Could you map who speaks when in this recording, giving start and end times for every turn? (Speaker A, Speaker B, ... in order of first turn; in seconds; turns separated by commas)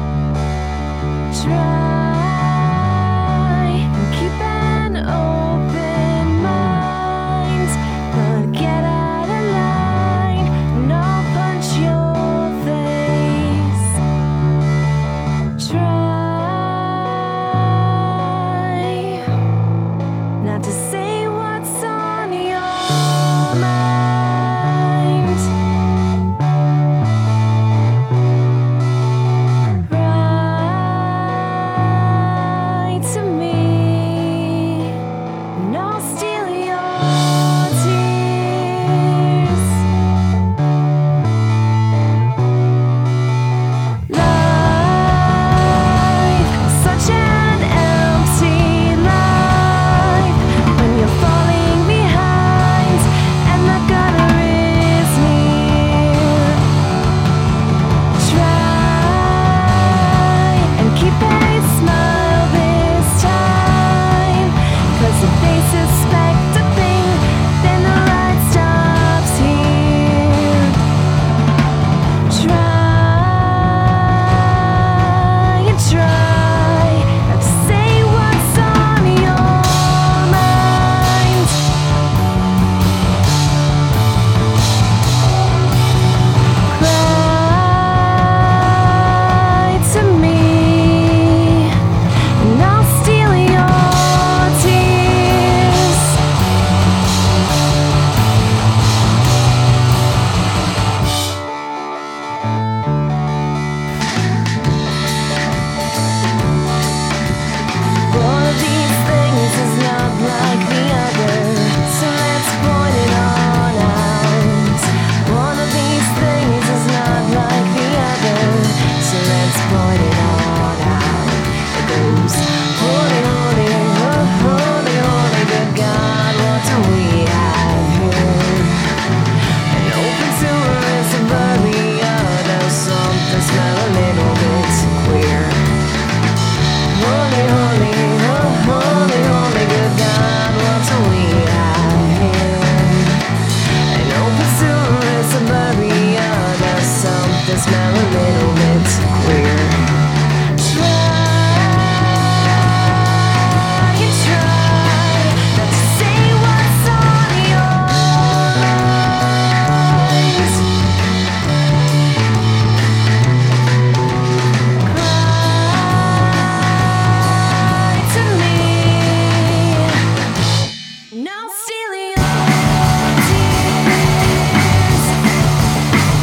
Speaker A: 1.3-14.0, Speaker A: 15.6-19.3, Speaker A: 20.4-25.5, Speaker A: 29.8-35.0, Speaker A: 35.5-39.8, Speaker A: 44.1-56.6, Speaker A: 58.2-70.8, Speaker A: 72.3-81.6, Speaker A: 86.7-91.8, Speaker A: 92.4-96.2, Speaker A: 108.1-128.9, Speaker A: 129.7-135.6, Speaker A: 136.9-143.2, Speaker A: 143.9-149.8, Speaker A: 150.6-160.7, Speaker A: 164.8-170.0, Speaker A: 171.1-175.2